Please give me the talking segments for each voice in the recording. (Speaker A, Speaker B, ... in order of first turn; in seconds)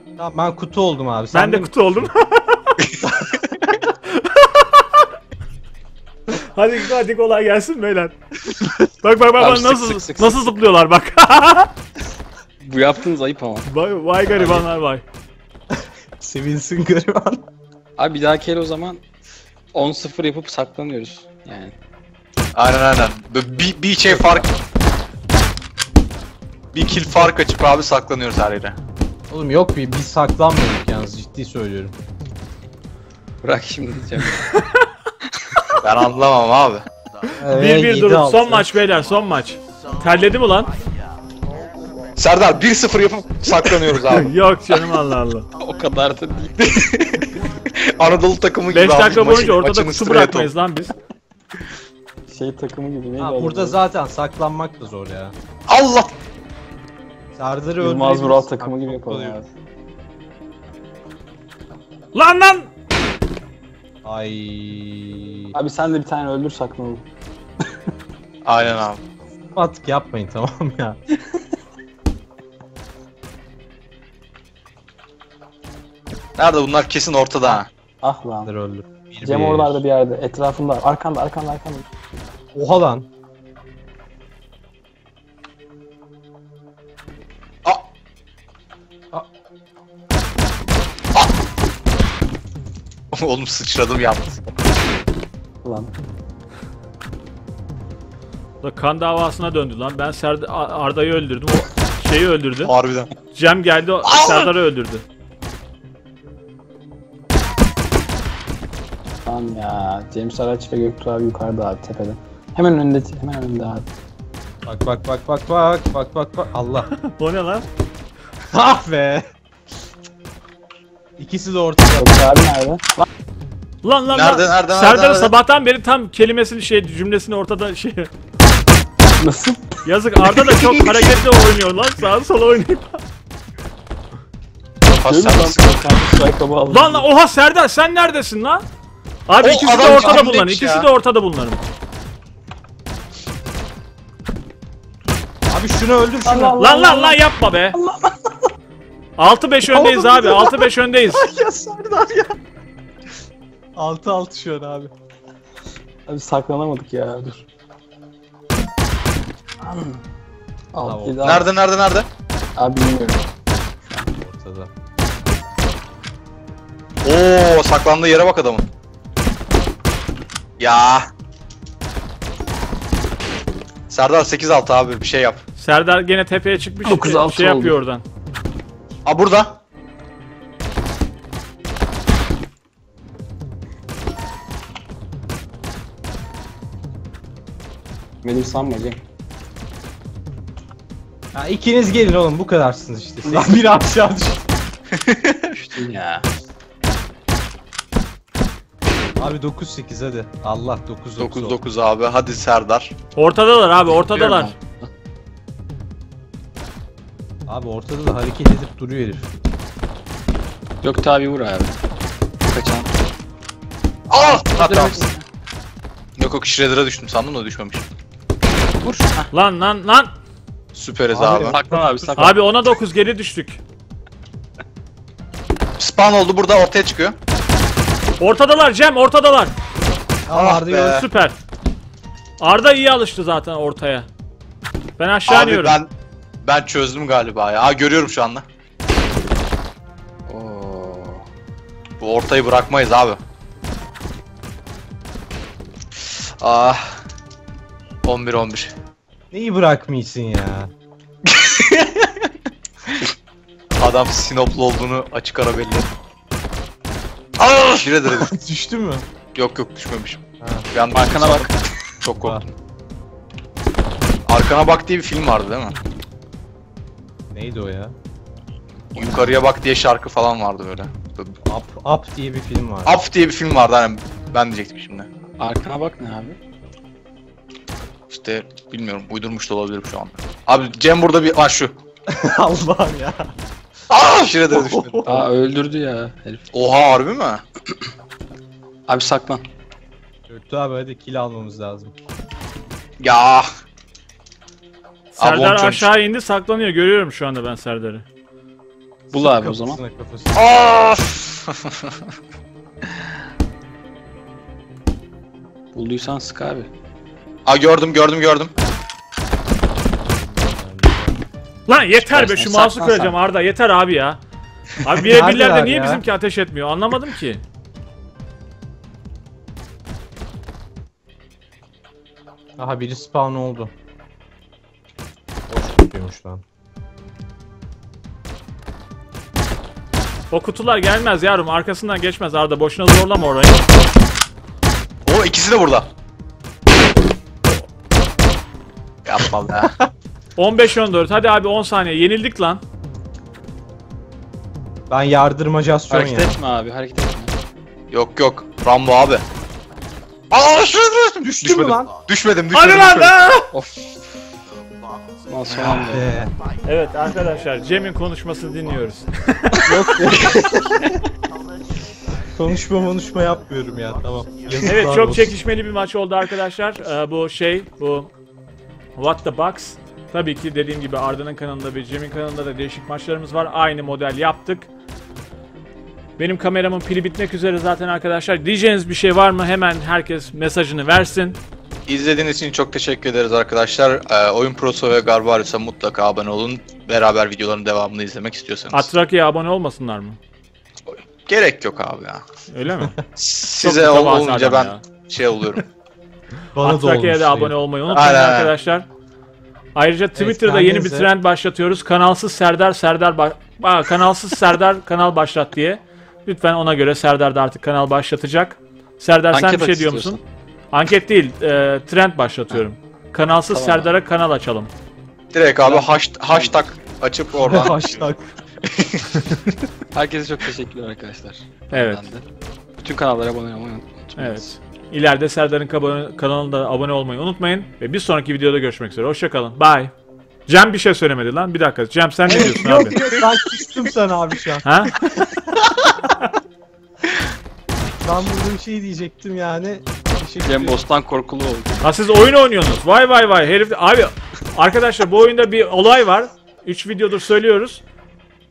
Speaker A: 0.2-1.7, 3.1-3.4, 15.7-17.4, 29.3-31.9, 37.4-38.7, 53.2-55.3, 57.4-59.4, 64.0-65.5, 69.5-71.0, 78.5-79.8, 82.5-83.1, 114.7-116.9, 118.5-119.3, 121.2-122.3, 139.8-140.2, 145.5-146.6, 149.7-152.4, 153.8-154.9, 160.8-161.4, 163.9-164.7, 191.3-194.4, 199.2-201.6, 207.5-209.3, 221.1-222.4, 230.3-231.1, 249.3-250.7, 258.1-259.1, 260.4-260.7, 267.3-267.9, 271.5-273.0, 282.1-283.3, 284.5-285.3, 290.3-291.9, 299.1-300.5, 310.1-311.2, 314.9-316.0, 322.6-323.7, 325.5-326.4, 344.9-346.4, 351.2-352.0, 355.6-356.3, 359.6-360.6, 362.3-365.4, 392.8-393.0, 396.6-397.6, 400.2-401.1, 417.3-418.3, 432.3-434.6, 438.0-440.8
Speaker B: 1.3-2.8, 4.1-5.0, 6.3-8.2, 9.0-11.7, 13.7-15.0, 34.5-34.9, 37.5-40.7, 44.1-45.5, 48.7-50.9, 62.1-62.7, 98.6-102.7, 103.3-105.0, 116.9-117.7, 123.8-128.1, 129.8-133.0, 136.7-138.6, 139.3-141.6, 146.6-147.8, 149.2-151.3, 175.6-178.0, 203.2-204.5, 219.3-220.1, 222.2-223.6, 228.2-229.5, 230.8-231.4, 232.4-234.1, 235.0-235.8, 295.1-298.1, 311.7-314.2, 314.8-317.4, 330.3-333.6, 340.4-342.6, 352.5-353.5, 356.6-359.8, 364.6-368.1, 369.0-374.7, 376.2-381.4, 388.7-390.2, 392.5-393.0, 393.6-394.8, 396.6-398.9, 399.8-410.2, 410.7-414.7, 421.7-422.1, 424.2-429.9, 430.5-433.0, 434.6-434.9, 441.8-447.8
Speaker C: 2.8-3.1, 22.6-24.5, 26.7-28.8, 35.8-36.9, 42.2-44.3, 46.6-50.5, 55.7-56.1, 68.5-69.0, 76.4-77.7, 93.1-94.5, 102.6-103.1, 104.1-104.5, 124.1-125.3, 130.5-131.2, 135.0-136.0, 139.4-140.9, 161.2-162.1, 167.0-168.7, 170.6-171.1, 173.9-175.4, 179.1-179.6, 194.9-195.5, 201.2-202.9, 204.1-204.5, 214.1-215.1, 216.2-217.9, 220.7-221.6, 225.8-227.2, 230.3-231.1, 235.3-235.9, 236.4-238.5, 242.0-243.2, 246.0-247.0, 248.0-248.7, 251.2-252.3, 253.8-255.9, 257.4-258.3, 259.3-261.5, 264.3-265.8, 268.9-271.4, 272.9-275.1, 278.1-281.8, 283.9-285.0, 286.5-287.4, 293.0-293.5, 295.2-295.9, 300.4-302.0, 307.5-308.5, 335.1-335.9, 339.0-339.8, 347.9-349.3, 350.3-353.2, 360.1-360.5, 381.9-388.9, 390.9-392.2, 393.2-395.6, 397.9-398.5, 415.3-418.1, 418.6-419.5
Speaker D: 9.4-10.6, 12.6-13.7, 14.4-14.6, 18.0-19.0, 19.7-21.8, 24.1-24.5, 33.4-34.5, 45.6-46.8, 52.3-53.8, 57.8-59.5, 65.5-67.0, 77.5-78.5, 79.2-81.9, 95.6-95.9, 109.3-113.9, 122.0-123.1, 129.2-129.8, 135.0-137.1, 146.2-147.2, 147.7-148.5, 156.1-157.5, 159.6-160.0, 160.7-161.5, 162.6-163.3, 176.8-177.8, 188.2-189.0, 195.5-196.3, 210.8-211.8, 212.4-212.9, 214.3-215.2, 218.8-219.3, 221.3-222.4, 240.3-241.3, 260.9-262.4, 275.4-276.4, 285.0-286.5, 288.9-289.4, 299.1-299.8, 305.7-306.7, 312.0-313.2, 345.9-347.3, 353.5-354.0, 355.3-356.1, 409.3-410.2, 413.5-413.9, 415.6-416.6, 419.9-422.2, 422.8-424.4, 440.4-441.8